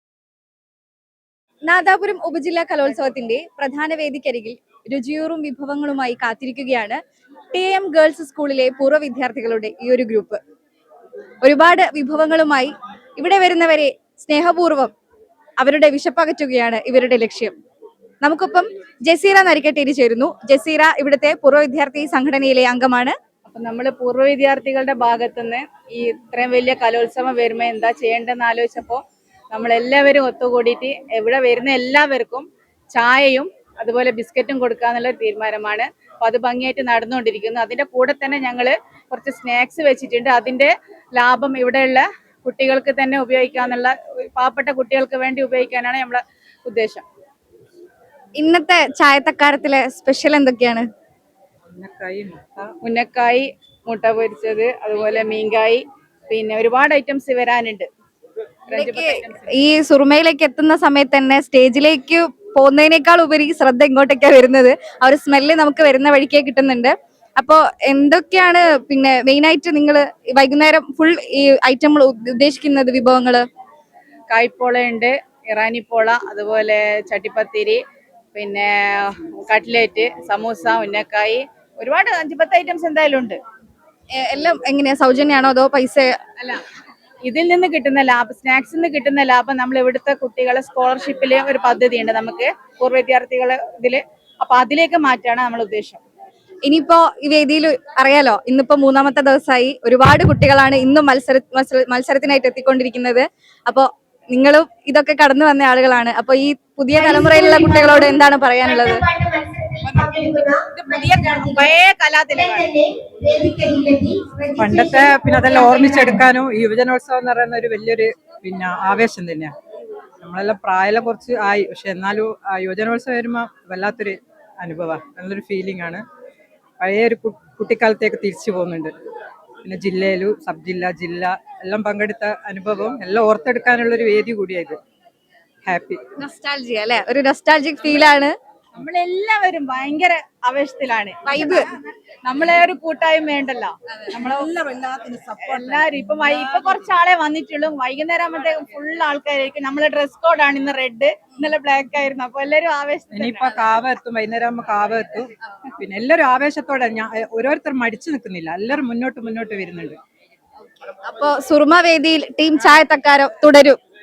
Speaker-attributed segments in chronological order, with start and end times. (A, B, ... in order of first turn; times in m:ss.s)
0:01.7-0:07.0 A
0:07.5-0:10.4 A
0:11.4-0:14.9 A
0:15.6-0:17.5 A
0:18.2-0:23.1 A
0:23.4-0:47.0 B
0:48.4-0:50.8 A
0:51.7-0:52.7 C
0:52.8-0:57.9 B
0:58.7-0:59.5 B
0:58.7-1:13.4 A
1:14.3-1:17.8 B
1:18.3-1:23.4 B
1:24.2-1:26.2 A
1:27.3-1:36.0 B
1:36.6-1:49.0 A
1:47.0-1:56.1 B
1:54.6-1:59.5 C
2:00.2-2:06.0 C
2:06.8-2:08.9 C
2:09.6-2:14.8 C
2:15.6-2:16.0 C
2:16.2-2:18.3 A
2:18.8-2:21.7 B
2:21.2-2:21.7 A
2:22.2-2:24.5 B
2:24.2-2:25.0 A
2:24.6-2:25.2 C
2:25.4-2:33.7 B
2:33.1-2:40.0 C
2:40.8-2:43.8 A